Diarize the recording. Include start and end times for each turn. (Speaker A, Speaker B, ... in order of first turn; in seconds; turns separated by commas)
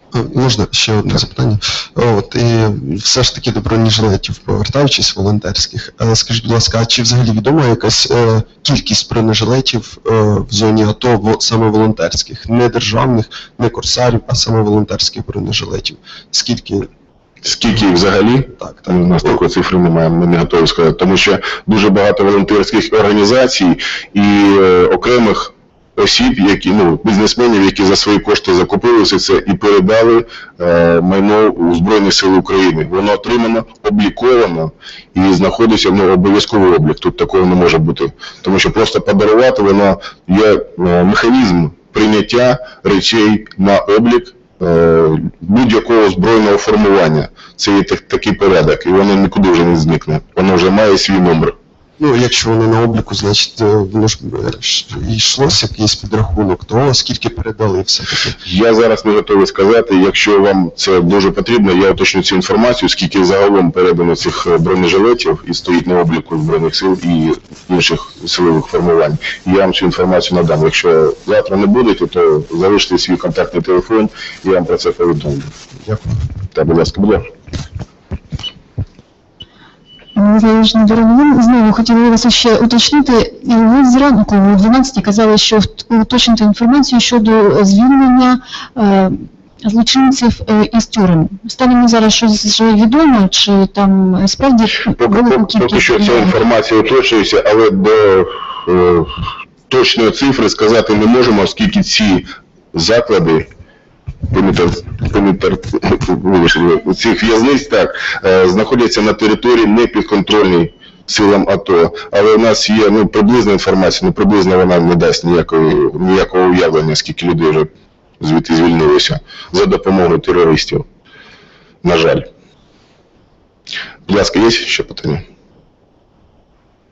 Speaker A: 0.1-16.9, Speaker B: 17.4-51.6, Speaker A: 18.5-19.4, Speaker A: 52.0-58.4, Speaker B: 58.4-75.5, Speaker A: 75.8-76.2, Speaker B: 76.5-77.3, Speaker C: 80.2-96.3, Speaker B: 94.9-99.1, Speaker B: 99.7-103.5, Speaker B: 104.3-117.7, Speaker B: 118.2-120.8, Speaker B: 121.8-122.3, Speaker B: 124.1-125.2